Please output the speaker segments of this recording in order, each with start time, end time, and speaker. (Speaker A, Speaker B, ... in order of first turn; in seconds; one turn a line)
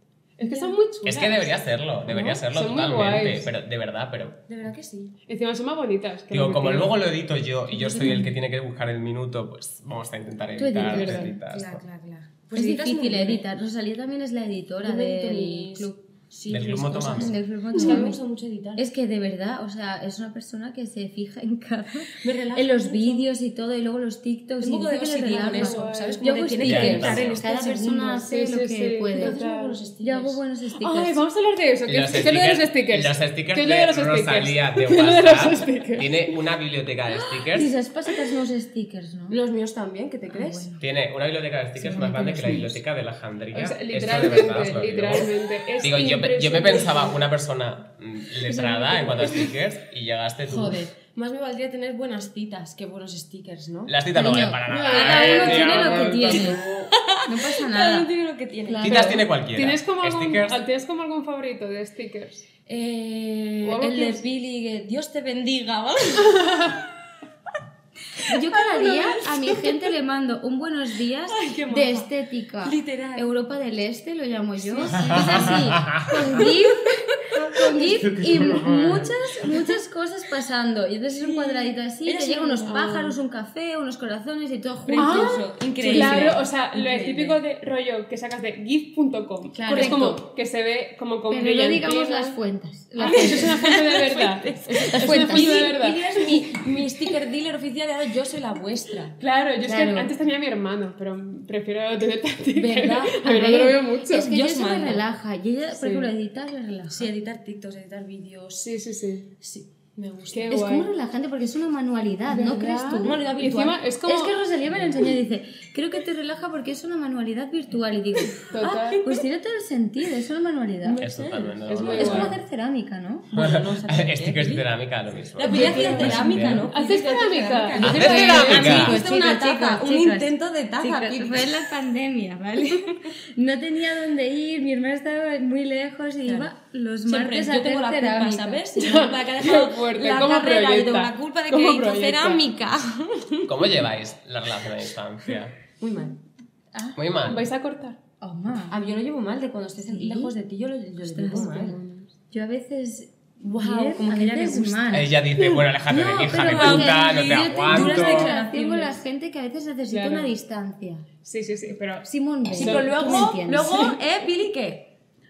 Speaker A: 0.4-1.5
Speaker B: 0.4-0.8
Speaker C: 1.0-4.4
Speaker B: 2.0-2.4
Speaker A: 2.5-3.5
Speaker B: 4.5-5.1
Speaker A: 5.3-7.0
Speaker C: 6.3-11.8
Speaker B: 7.7-8.3
Speaker D: 10.6-11.3
Speaker B: 10.8-13.4
Speaker A: 10.9-11.3
Speaker D: 12.5-16.0
Speaker B: 14.8-18.9
Speaker C: 16.5-17.4
Speaker D: 16.9-18.2
Speaker A: 17.8-18.1
Speaker D: 18.8-29.4
Speaker B: 22.2-23.3
Speaker B: 24.6-28.2
Speaker A: 25.3-26.2
Speaker C: 26.6-27.4
Speaker A: 28.2-29.8
Speaker B: 29.1-30.4
Speaker D: 30.0-31.2
Speaker A: 30.8-36.3
Speaker C: 31.9-37.7
Speaker D: 37.5-39.4
Speaker B: 37.5-38.1
Speaker B: 39.3-40.7
Speaker D: 40.3-40.8
Speaker C: 40.8-50.9
Speaker D: 41.8-42.8
Speaker A: 43.5-47.2
Speaker D: 48.5-49.5
Speaker D: 50.5-50.9
Speaker B: 50.9-53.9
Speaker C: 53.9-56.9
Speaker D: 54.1-56.6
Speaker A: 54.7-56.6
Speaker B: 56.2-59.2
Speaker D: 57.2-58.1
Speaker D: 58.6-59.2
Speaker C: 58.8-60.6
Speaker A: 58.9-62.5
Speaker B: 62.7-66.4
Speaker A: 63.6-64.2
Speaker A: 66.3-66.7
Speaker D: 68.2-86.4
Speaker B: 68.2-69.8
Speaker B: 71.3-72.1
Speaker B: 72.6-73.3
Speaker B: 74.6-76.7
Speaker C: 75.0-76.1
Speaker B: 77.2-77.9
Speaker C: 78.0-79.1
Speaker B: 81.2-83.2
Speaker B: 84.8-87.4
Speaker A: 85.0-92.4
Speaker D: 89.5-90.2
Speaker B: 89.7-90.2
Speaker D: 91.3-93.9
Speaker A: 93.0-96.0
Speaker B: 93.0-99.2
Speaker D: 94.9-95.8
Speaker A: 99.2-104.3
Speaker D: 99.6-100.1
Speaker B: 102.5-103.4
Speaker D: 103.2-107.1
Speaker B: 104.1-105.0
Speaker A: 105.7-106.1
Speaker B: 106.9-108.7
Speaker A: 108.6-109.3
Speaker B: 109.4-110.7
Speaker A: 110.3-110.9
Speaker D: 110.5-113.2
Speaker A: 112.3-114.4
Speaker B: 113.0-113.8
Speaker D: 114.0-121.0
Speaker A: 118.5-119.0
Speaker B: 118.7-119.2
Speaker B: 120.8-122.3
Speaker C: 121.0-122.3
Speaker A: 121.7-122.3
Speaker D: 121.9-123.3
Speaker B: 123.3-124.7
Speaker C: 123.3-126.7
Speaker B: 125.3-131.6
Speaker D: 125.4-126.7
Speaker A: 126.7-128.8
Speaker D: 127.7-138.7
Speaker C: 127.8-129.0
Speaker B: 136.2-136.5
Speaker B: 137.1-143.7
Speaker A: 138.8-142.4
Speaker C: 143.4-145.6
Speaker B: 145.8-146.2
Speaker D: 146.7-147.0
Speaker C: 146.9-147.4
Speaker A: 147.2-148.0
Speaker D: 148.2-148.8
Speaker B: 148.7-151.8
Speaker D: 149.8-150.3
Speaker D: 151.0-155.1
Speaker A: 151.6-152.0
Speaker B: 153.4-155.1
Speaker C: 154.9-158.3
Speaker D: 155.9-161.0
Speaker B: 155.9-158.9
Speaker A: 159.9-160.3
Speaker A: 161.2-163.4
Speaker D: 162.0-163.9
Speaker B: 162.5-164.9